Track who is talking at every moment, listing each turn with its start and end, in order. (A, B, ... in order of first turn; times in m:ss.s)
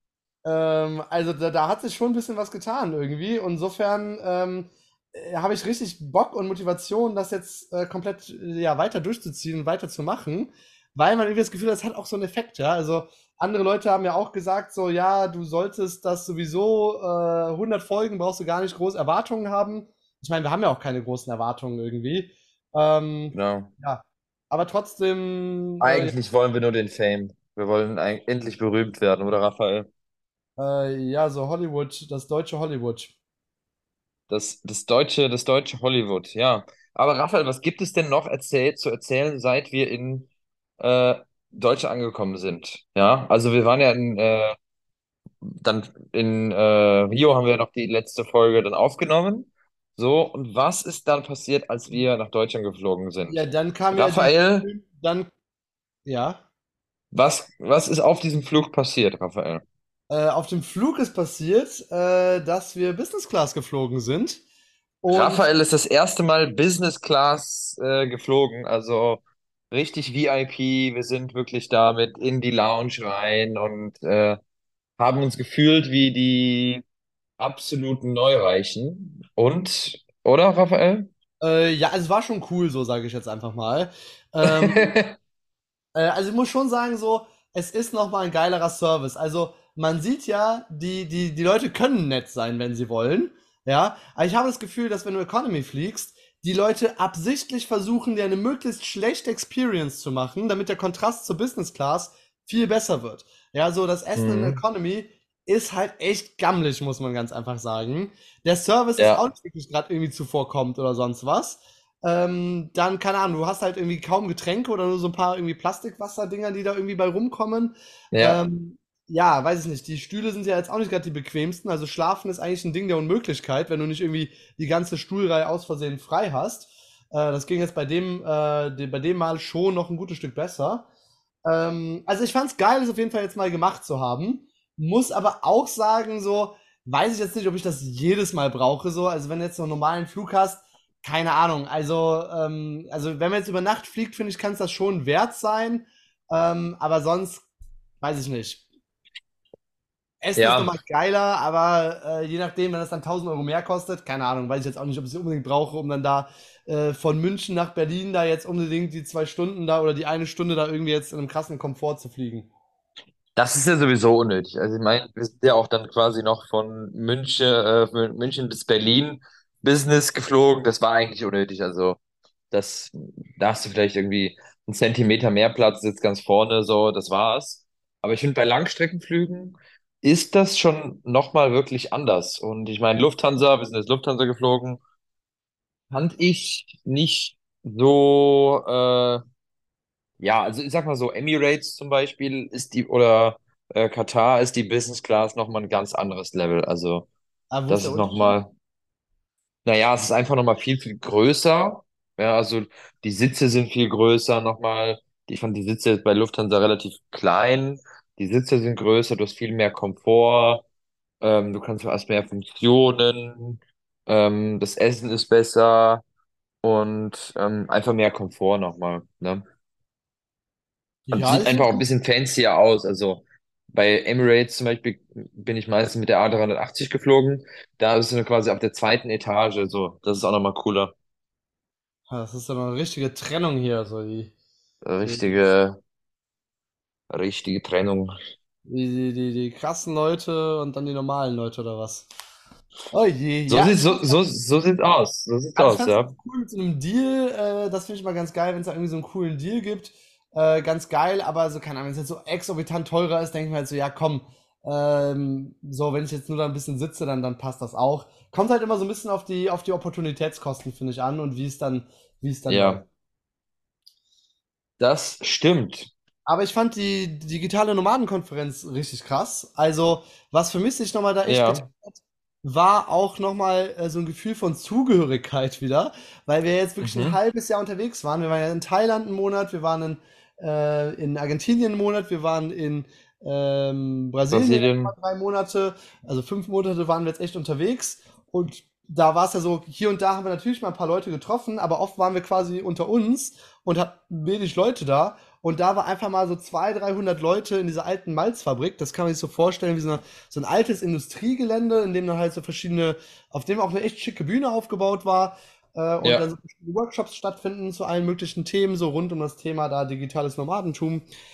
0:00.4-0:26.1 A
0:23.3-0:23.7 B
0:25.8-0:29.9 B
0:30.6-0:33.1 A
0:34.3-0:40.3 B
0:40.8-0:44.5 B
0:45.4-0:53.4 B
0:53.3-0:55.3 A
0:53.9-0:54.7 B
0:56.0-0:56.4 A
0:57.1-0:59.6 B
1:00.1-1:04.4 A
1:05.0-1:05.4 A
1:05.1-1:14.4 B
1:15.0-1:16.8 B
1:17.4-1:21.1 B
1:21.4-1:24.9 A
1:24.4-1:25.2 B
1:25.9-2:10.9 A
1:44.2-1:44.6 B
1:49.0-1:49.2 B
1:58.1-1:58.4 B
2:11.4-2:27.4 A
2:28.0-2:28.6 A
2:30.2-2:42.5 A
2:30.3-2:30.7 B
2:43.4-2:52.0 B
2:52.5-3:04.8 B
3:05.9-3:09.2 B
3:10.2-3:17.1 B
3:17.5-3:18.4 A
3:17.7-3:18.5 B
3:19.6-3:30.6 B
3:31.2-3:36.0 B
3:36.6-3:39.4 B
3:41.1-3:41.8 A
3:41.1-3:50.9 B
3:52.1-3:54.3 A
3:54.8-3:55.8 B
3:55.0-3:55.5 A
3:57.1-3:58.1 B
3:58.6-4:02.1 A
4:02.9-4:04.2 A
4:03.5-4:06.1 B
4:05.6-4:22.8 A
4:22.5-4:22.8 B
4:24.8-4:25.9 B
4:26.2-5:11.0 A
4:31.2-4:31.6 B
4:36.8-4:37.2 B
4:44.3-4:44.9 B
5:06.0-5:06.3 B